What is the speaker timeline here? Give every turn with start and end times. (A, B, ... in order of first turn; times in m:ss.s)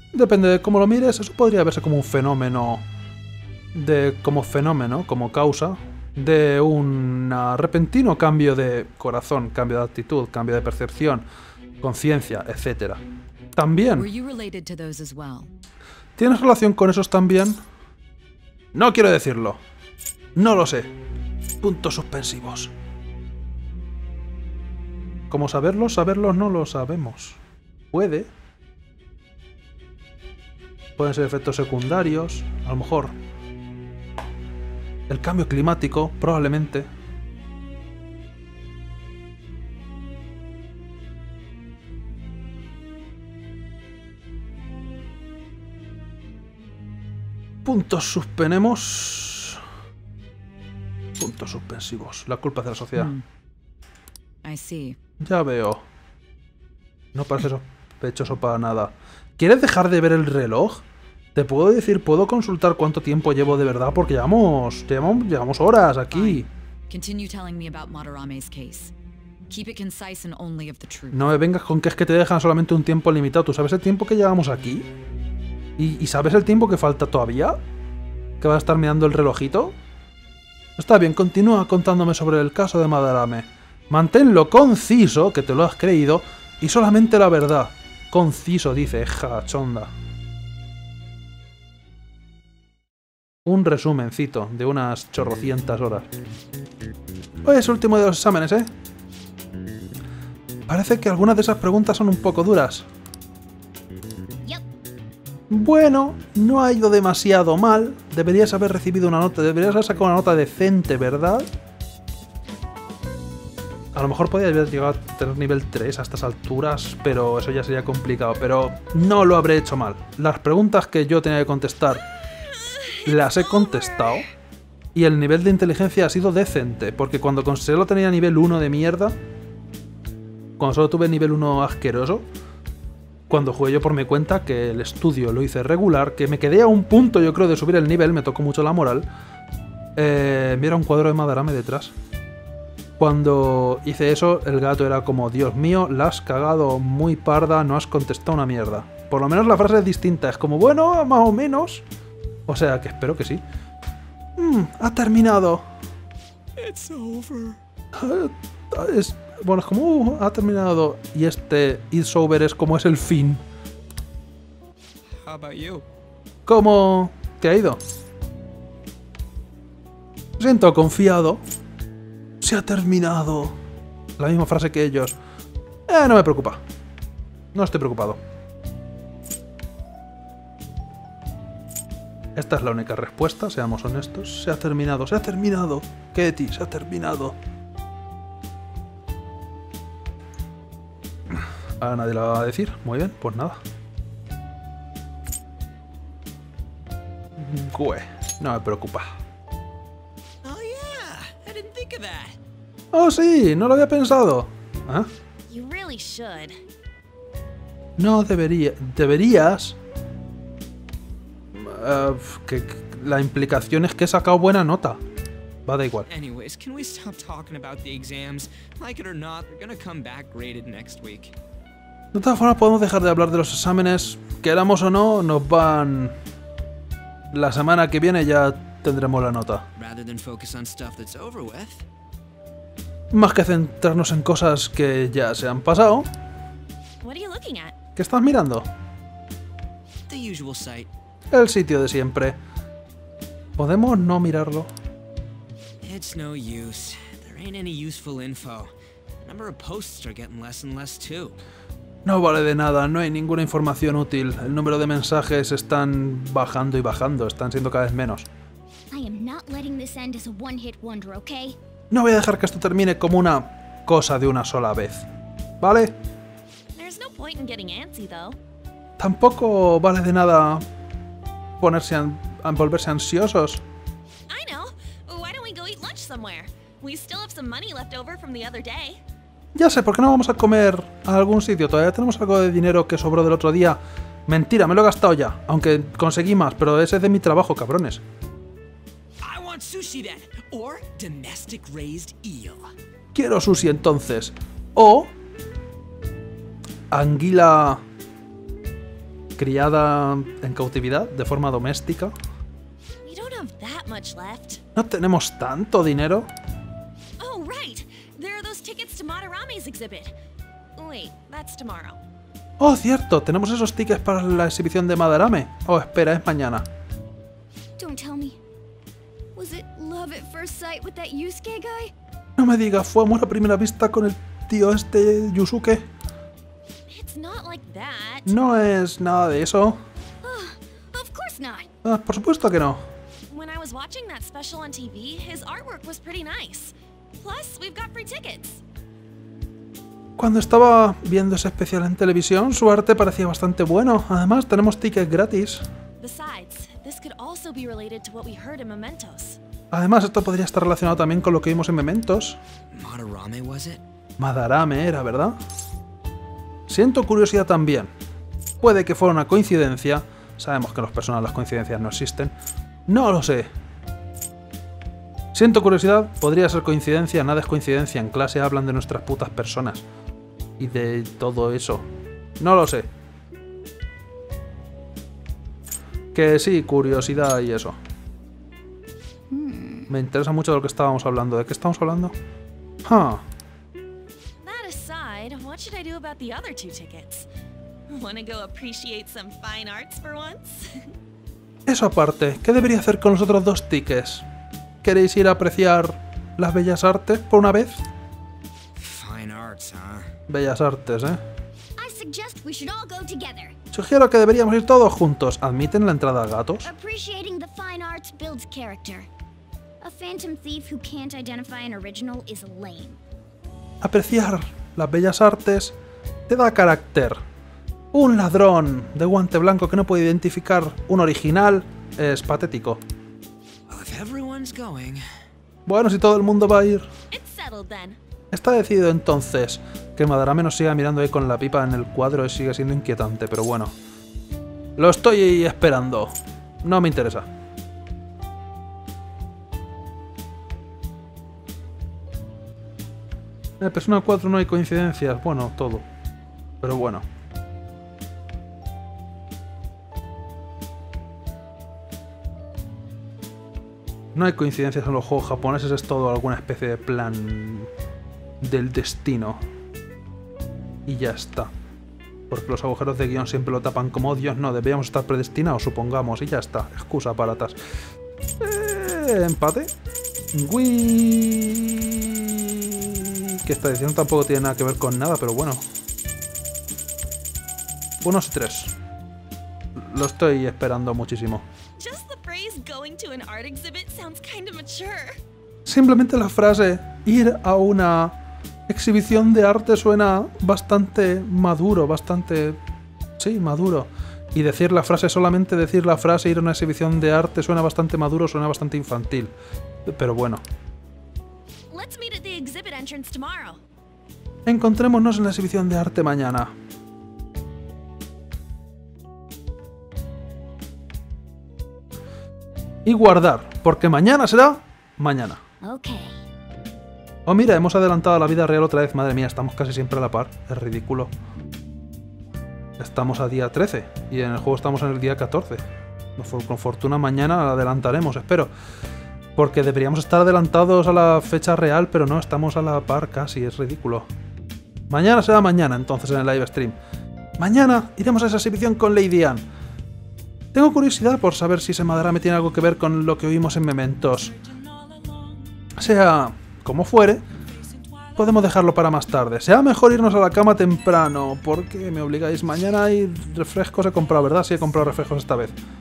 0:00.1-0:02.8 A
0:03.7-0:11.2 A
0:11.8-0:13.0 A
0:13.6-0:14.0 A
0:14.0-0:15.5 B
0:16.2-0:17.6 A
0:18.7-0:19.6 A
0:20.4-0:20.9 A
0:21.6-0:22.7 A
0:25.3-0:27.4 A
0:27.9-0:28.3 A
0:31.0-0:33.1 A
0:35.1-0:36.9 A
0:47.6-0:49.6 A
0:51.2-0:53.1 A
0:52.9-0:53.2 B
0:54.4-0:55.0 B
0:55.2-0:55.8 A
0:57.1-1:00.8 A
1:01.3-1:06.5 A
1:06.1-1:08.9 B
1:09.5-1:11.3 B
1:11.1-1:14.8 A
1:15.8-1:17.6 A
1:18.4-1:19.7 A
1:20.8-1:29.9 A
1:33.4-1:36.1 A
1:37.4-1:38.7 A
1:40.7-1:42.8 A
1:45.5-1:51.5 A
1:53.9-2:02.0 A
2:03.0-2:04.3 A
2:04.9-2:09.2 A
2:10.6-2:12.2 A
2:13.3-2:19.1 A
2:20.0-2:21.9 A
2:23.0-2:31.8 A
2:32.5-2:33.4 A
2:34.4-2:35.6 A
2:36.6-2:37.6 C
2:37.9-2:43.4 A
2:45.2-2:45.8 C
2:46.4-2:47.8 A
2:50.4-2:51.4 A
2:52.4-2:53.6 A
2:54.2-2:55.2 A
2:55.9-2:56.6 A
2:57.5-2:58.2 A
3:02.4-3:07.4 A
3:11.3-3:13.6 A
3:17.4-3:19.2 A
3:20.4-3:22.4 C
3:22.9-3:25.1 A
3:25.5-3:26.6 D
3:28.0-3:29.8 A
3:31.5-3:35.0 A
3:35.6-3:36.1 A
3:36.1-3:41.4 C
3:42.1-3:46.1 A
3:47.3-3:49.6 A
3:49.8-3:51.8 C
3:53.1-3:56.1 A
3:57.0-3:57.7 D
3:58.0-3:58.7 A
4:00.1-4:00.9 C
4:01.3-4:02.4 A
4:03.6-4:04.7 A
4:05.8-4:11.4 C
4:12.0-4:18.3 A
4:18.9-4:21.6 E
4:21.9-4:25.0 A
4:25.6-4:25.9 A
4:26.7-4:28.4 D
4:29.0-4:30.6 A
4:31.6-4:33.6 A
4:34.3-4:39.0 D
4:39.5-4:48.0 A
4:49.2-4:52.7 C
4:53.1-4:55.1 A
4:56.9-4:57.8 A
4:59.4-5:02.1 A
5:03.0-5:04.6 D
5:04.7-5:06.3 A
5:07.2-5:10.1 D
5:10.8-5:12.0 D
5:12.6-5:16.6 A
5:17.8-5:18.4 E
5:19.4-5:21.9 E
5:22.4-5:25.8 A
5:26.9-5:28.3 D
5:28.3-5:29.8 A
5:30.2-5:31.7 E
5:31.8-5:32.8 A
5:33.3-5:38.6 D
5:40.2-5:45.6 A
5:46.0-5:49.4 D
5:49.7-5:52.4 A
5:52.7-5:53.8 C
5:54.2-5:55.4 A
5:56.7-5:57.9 A
5:58.6-6:02.3 A
6:02.9-6:03.5 A
6:05.3-6:09.8 A
6:10.6-6:11.8 A
6:12.4-6:12.9 A
6:16.1-6:17.8 A
6:19.3-6:19.8 E
6:19.9-6:22.1 A
6:22.8-6:23.2 A
6:24.4-6:27.3 D
6:27.9-6:30.9 D
6:31.7-6:34.2 A
6:34.8-6:37.8 A
6:38.8-6:40.1 C
6:40.3-6:41.2 A
6:41.8-6:43.5 E
6:43.7-6:46.7 A
6:46.6-6:49.1 E
6:49.8-6:53.0 E
6:53.8-6:55.7 A
6:56.3-6:57.2 A
6:57.9-7:02.8 A
7:03.7-7:05.0 C
7:05.6-7:06.9 A
7:07.1-7:08.0 D
7:08.3-7:13.7 A
7:14.8-7:17.3 A
7:23.6-7:25.8 A
7:26.6-7:27.0 A
7:34.1-7:37.7 A
7:38.4-7:39.4 A
7:40.9-7:41.5 A
7:42.3-7:47.6 A
7:48.4-7:49.7 A
7:50.3-7:55.6 A
7:58.0-7:58.7 A
7:59.8-8:01.4 A
8:01.8-8:05.2 D
8:05.6-8:08.2 A
8:08.7-8:12.6 A
8:13.2-8:19.3 A
8:19.8-8:20.4 A
8:21.7-8:23.6 D
8:24.4-8:26.5 A
8:32.8-8:35.4 A
8:35.6-8:36.2 E
8:37.3-8:41.1 A
8:42.8-8:45.6 A
8:46.2-8:48.5 A
8:49.4-8:54.1 A
8:54.9-8:56.8 A
8:57.4-8:59.4 A
9:00.5-9:04.3 A
9:05.8-9:07.2 A
9:08.1-9:15.5 A